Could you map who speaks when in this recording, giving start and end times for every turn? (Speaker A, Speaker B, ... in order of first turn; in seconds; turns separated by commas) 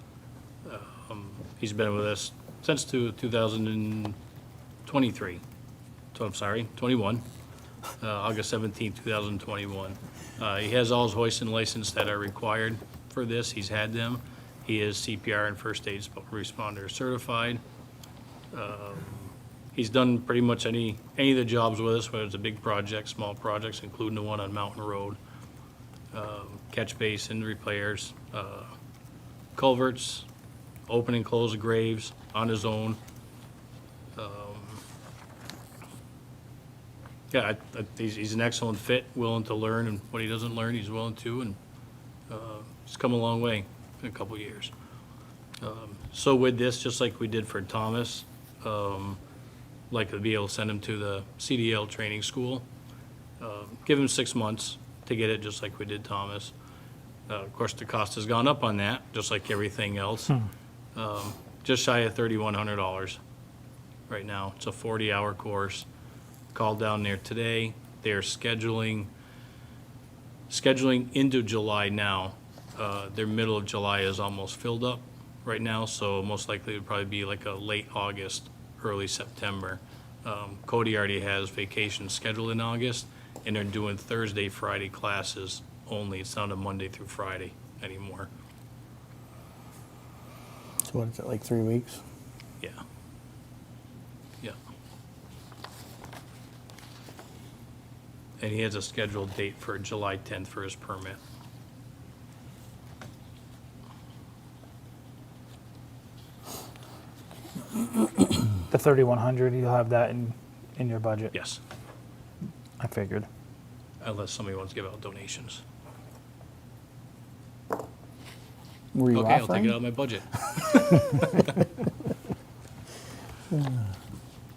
Speaker A: 0.6-4.2, Speaker A: 4.8-5.4, Speaker A: 6.1-7.2, Speaker A: 8.0-17.6, Speaker A: 18.5-25.2, Speaker A: 26.1-28.7, Speaker A: 29.6-30.3, Speaker A: 30.9-33.0, Speaker A: 34.1-34.8, Speaker A: 37.3-41.6, Speaker A: 42.3-44.7, Speaker A: 45.6-49.2, Speaker A: 49.9-52.6, Speaker A: 53.4-56.5, Speaker A: 57.3-60.3, Speaker A: 61.0-63.2, Speaker A: 64.1-65.8, Speaker A: 66.5-69.1, Speaker A: 70.5-88.3, Speaker B: 90.8-92.0, Speaker A: 98.4-101.2, Speaker C: 108.7-111.3, Speaker A: 111.3-111.6, Speaker C: 112.8-113.3, Speaker A: 114.0-115.6, Speaker B: 118.9-119.8, Speaker A: 119.1-121.6, Speaker B: 123.5-123.9